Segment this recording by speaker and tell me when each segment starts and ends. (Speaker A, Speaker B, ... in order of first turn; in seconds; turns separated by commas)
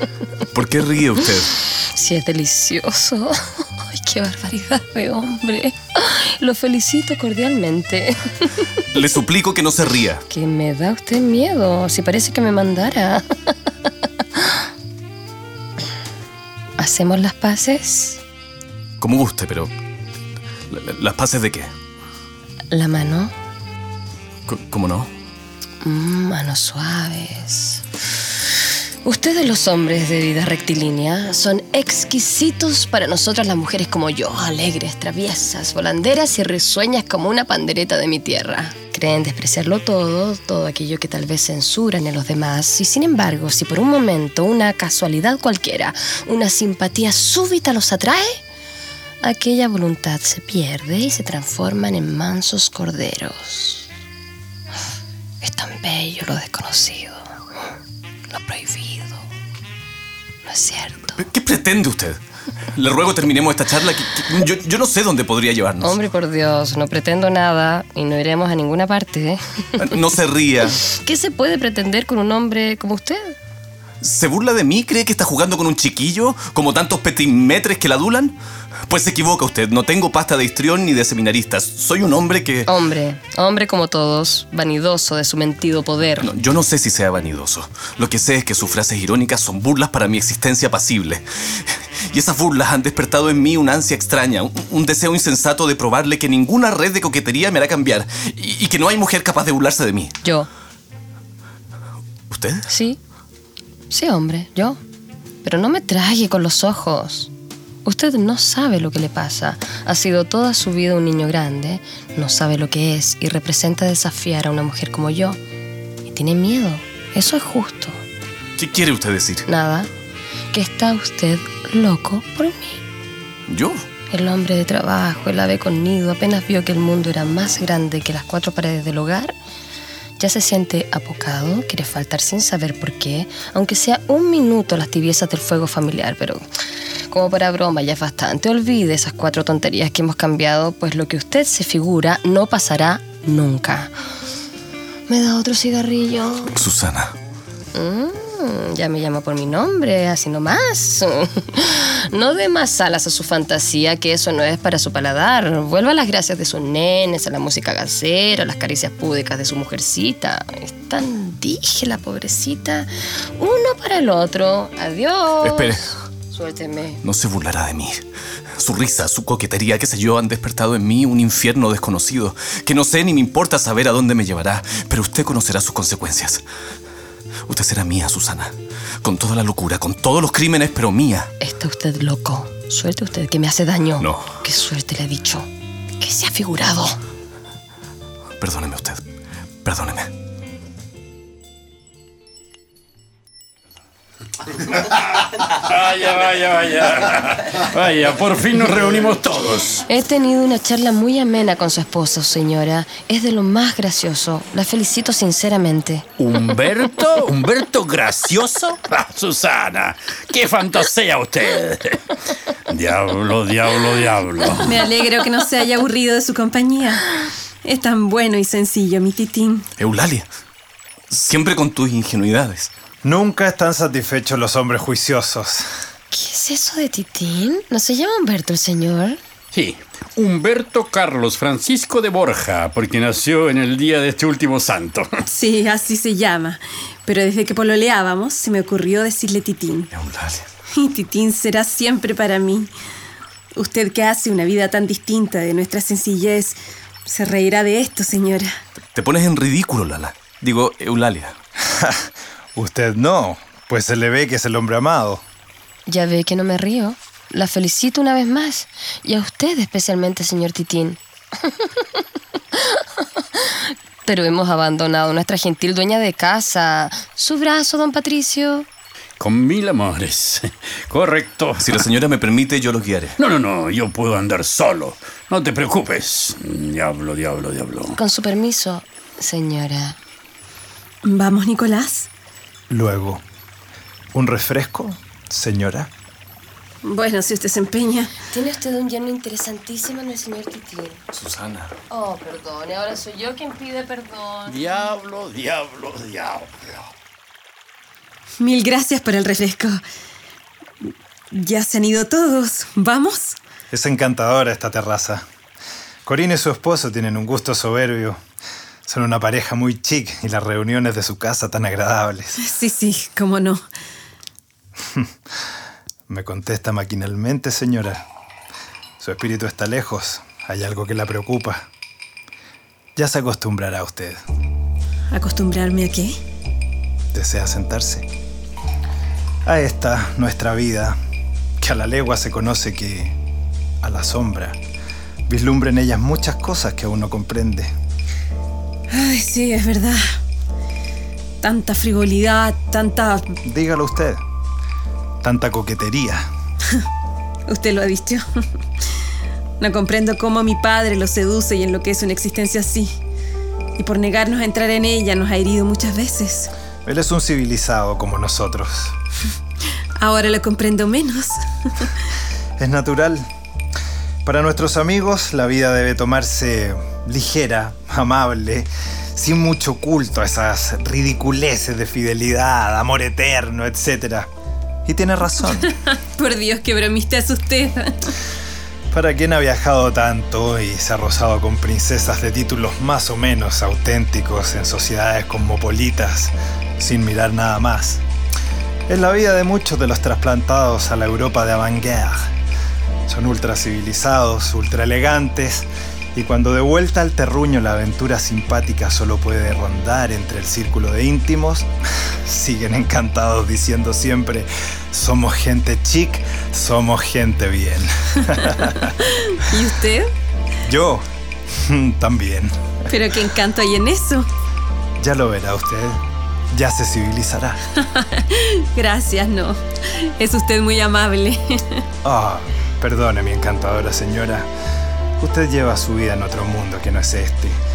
Speaker A: 0.5-1.5, Speaker B: 1.8-8.6, Speaker A: 8.9-10.2, Speaker B: 10.3-13.5, Speaker B: 16.8-18.2, Speaker A: 19.0-19.7, Speaker A: 20.7-21.7, Speaker B: 22.7-23.3, Speaker A: 24.5-25.1, Speaker B: 25.8-27.8, Speaker B: 29.0-48.4, Speaker B: 49.2-53.9, Speaker B: 55.4-57.3, Speaker B: 58.3-59.2, Speaker B: 60.5-61.2, Speaker A: 61.2-62.2, Speaker A: 62.8-66.0, Speaker B: 65.8-69.4, Speaker A: 69.8-70.8, Speaker B: 70.8-73.3, Speaker A: 74.0-78.4, Speaker A: 78.9-82.7, Speaker B: 82.7-86.3, Speaker A: 86.2-100.2, Speaker A: 102.3-102.7, Speaker B: 102.7-103.0, Speaker B: 103.9-104.8, Speaker B: 105.4-107.3, Speaker B: 107.8-115.4, Speaker B: 116.1-118.0, Speaker A: 118.6-119.5, Speaker B: 119.5-119.9, Speaker B: 120.5-122.8, Speaker A: 123.5-123.8, Speaker B: 124.1-129.3, Speaker B: 130.2-136.4, Speaker B: 137.1-143.9, Speaker B: 145.1-146.5, Speaker A: 146.5-147.1, Speaker B: 147.7-167.0, Speaker A: 165.4-165.9, Speaker A: 167.0-168.0, Speaker A: 168.6-176.4, Speaker A: 177.5-181.3, Speaker B: 181.4-185.5, Speaker A: 184.0-184.3, Speaker B: 186.0-187.0, Speaker A: 188.4-189.0, Speaker A: 189.6-190.1, Speaker C: 194.8-199.9, Speaker B: 199.9-206.1, Speaker C: 206.2-212.1, Speaker C: 212.7-214.8, Speaker D: 214.6-217.1, Speaker D: 217.6-219.7, Speaker A: 219.8-220.3, Speaker A: 221.1-222.7, Speaker E: 223.0-225.7, Speaker B: 226.1-229.2, Speaker C: 229.5-235.1, Speaker D: 235.3-239.9, Speaker A: 239.9-240.5, Speaker D: 240.8-242.7, Speaker D: 243.6-248.5, Speaker A: 248.9-251.4, Speaker E: 251.7-255.2, Speaker B: 255.9-261.7, Speaker B: 264.1-268.7, Speaker C: 269.2-271.8, Speaker A: 271.6-273.2, Speaker C: 273.2-278.0, Speaker B: 277.9-280.0, Speaker D: 281.0-282.1, Speaker E: 282.7-283.2, Speaker E: 284.1-285.9, Speaker D: 286.9-288.1, Speaker B: 288.3-291.0, Speaker A: 291.1-291.7, Speaker B: 291.9-294.7, Speaker C: 294.5-296.8, Speaker D: 298.4-299.8, Speaker D: 301.3-303.4, Speaker E: 303.7-305.2, Speaker E: 306.1-308.2, Speaker E: 308.9-312.4, Speaker D: 312.4-313.6, Speaker E: 316.1-318.0, Speaker E: 319.0-321.7, Speaker E: 323.0-324.2, Speaker D: 325.1-326.2, Speaker E: 327.1-328.1, Speaker E: 329.4-331.0, Speaker E: 331.6-333.1, Speaker E: 333.8-334.6, Speaker E: 335.3-337.7, Speaker D: 338.9-340.0, Speaker D: 341.4-343.4, Speaker E: 343.4-344.2, Speaker E: 345.2-346.3, Speaker D: 347.5-348.2, Speaker D: 349.6-352.9, Speaker D: 353.8-356.5, Speaker E: 356.9-359.0, Speaker D: 360.0-361.9, Speaker E: 362.6-363.3, Speaker E: 364.2-374.3, Speaker E: 374.9-375.7, Speaker D: 375.6-378.1, Speaker E: 378.9-388.0, Speaker E: 388.9-392.3, Speaker E: 393.1-401.7, Speaker E: 402.2-409.0, Speaker D: 409.0-410.1, Speaker E: 410.6-412.5, Speaker D: 412.9-414.3, Speaker E: 415.0-417.6, Speaker D: 417.8-421.8, Speaker E: 422.0-424.5, Speaker E: 425.2-427.6